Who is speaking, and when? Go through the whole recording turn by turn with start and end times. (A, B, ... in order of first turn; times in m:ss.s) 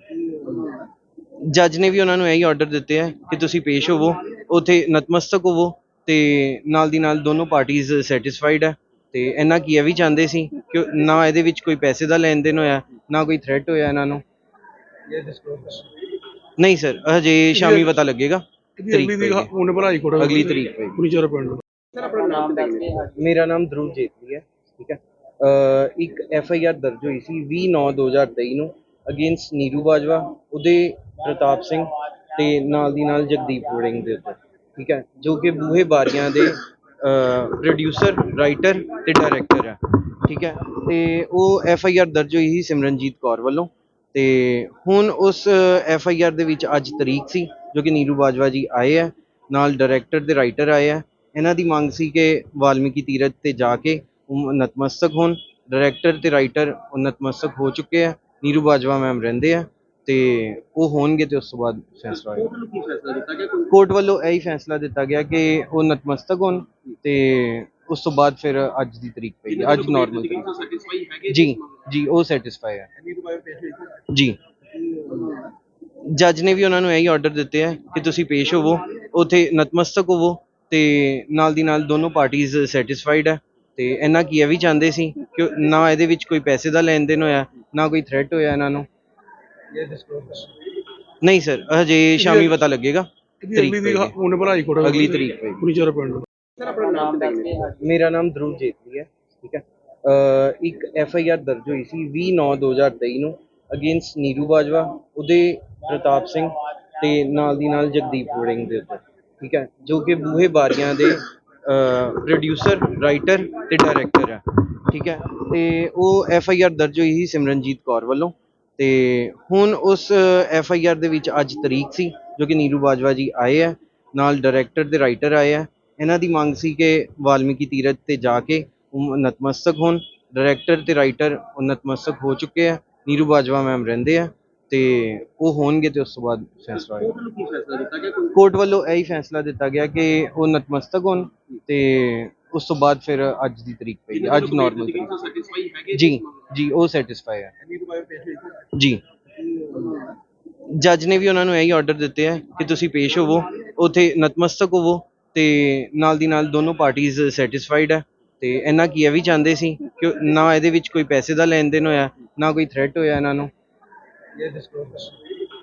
0:00.1-0:00.9 A
0:01.4-0:14.2 B
0:15.1-0:15.8 A
0:16.6-0:19.5 B
0:17.5-0:18.0 C
0:18.8-0:22.2 C
0:20.2-0:21.0 B
0:22.0-0:23.1 A
0:23.0-1:02.5 B
1:02.2-1:03.7 A
1:03.7-1:10.5 B
1:09.5-1:11.6 A
1:11.3-1:12.9 B
1:13.0-1:14.1 A
1:14.1-1:14.4 B
1:14.7-1:15.5 A
1:16.0-1:28.9 B
1:29.8-1:30.5 A
1:31.2-1:34.2 B
1:32.2-1:32.6 C
1:33.4-1:36.7 C
1:34.8-1:35.6 B
1:36.6-1:37.7 A
1:37.7-2:17.2 B
2:16.8-2:18.3 A
2:18.3-2:25.3 B
2:24.1-2:26.2 A
2:25.9-2:27.5 B
2:27.6-2:28.6 A
2:28.7-2:29.0 B
2:29.4-2:30.2 A
2:30.7-2:43.5 B
2:44.4-2:45.1 C